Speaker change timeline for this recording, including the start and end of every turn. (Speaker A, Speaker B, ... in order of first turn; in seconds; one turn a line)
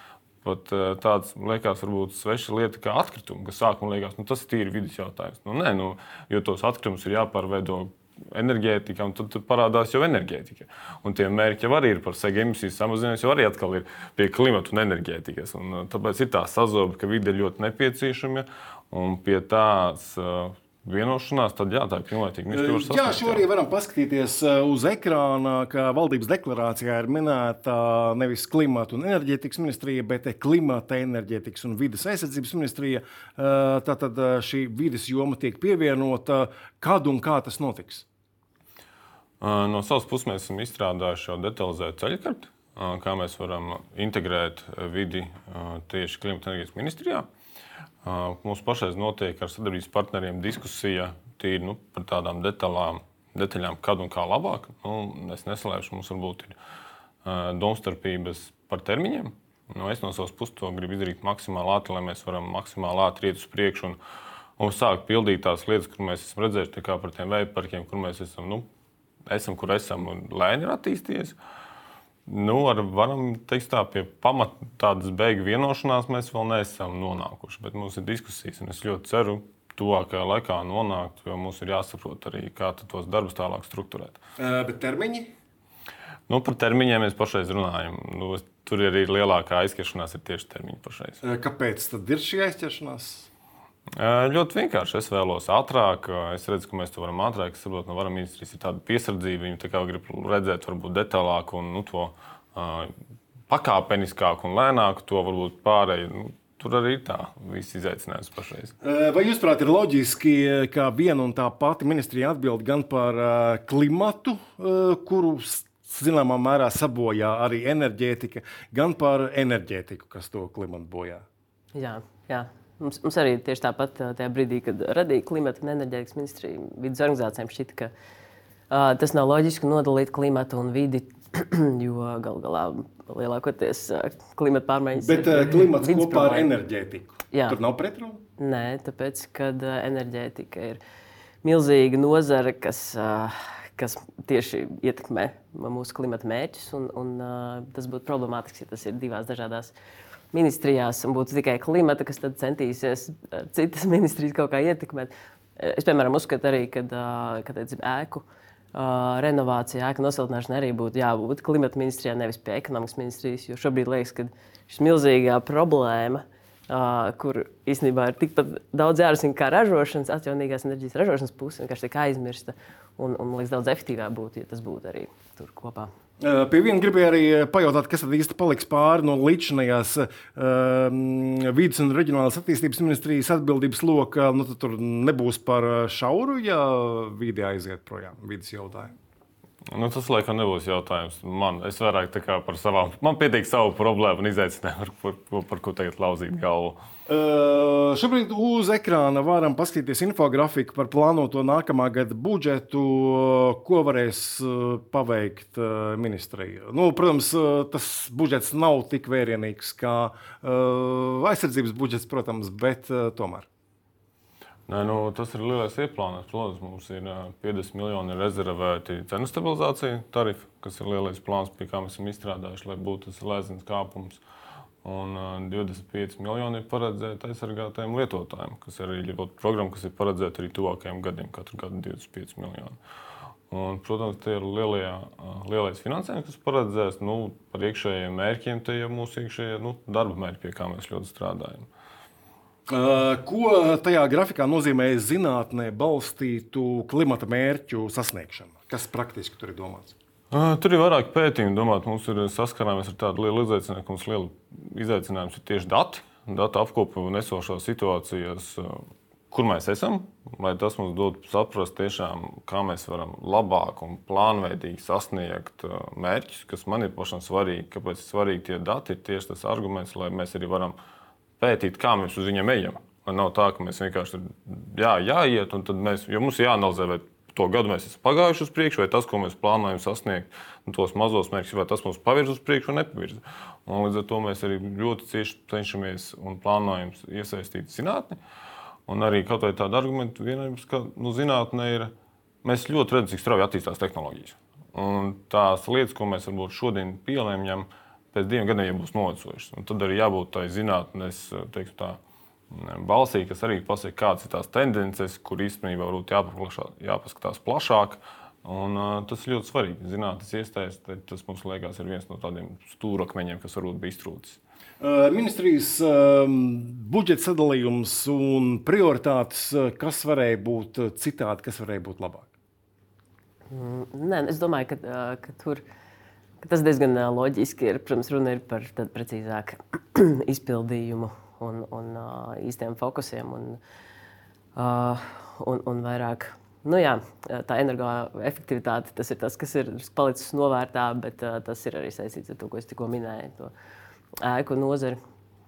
Speaker A: 0.4-23.4
Speaker B: 22.5-38.0
Speaker A: 39.4-47.2
Speaker A: 48.0-56.5
Speaker A: 57.2-64.0
Speaker A: 64.6-68.7
Speaker A: 69.2-71.3
Speaker A: 72.3-84.2
Speaker B: 84.4-85.3
Speaker A: 86.3-91.2
Speaker B: 91.2-93.3
Speaker A: 94.0-102.9
Speaker A: 103.5-108.7
Speaker B: 108.8-121.2
Speaker C: 121.7-127.9
Speaker C: 128.7-136.5
Speaker B: 135.0-138.2
Speaker C: 137.3-137.6
Speaker C: 138.4-140.8
Speaker C: 141.4-149.7
Speaker C: 150.3-175.9
Speaker B: 176.2-188.9
Speaker A: 189.7-196.8
Speaker B: 197.1-213.5
Speaker A: 214.7-224.2
Speaker A: 224.8-232.8
Speaker A: 233.5-241.7
Speaker B: 242.7-249.9
Speaker A: 250.3-270.7
Speaker A: 271.4-288.2
Speaker A: 288.9-291.9
Speaker A: 292.4-302.0
Speaker A: 302.5-314.4
Speaker B: 314.8-322.3
Speaker C: 323.5-325.6
Speaker C: 326.4-333.6
Speaker C: 334.6-343.5
Speaker C: 344.2-345.0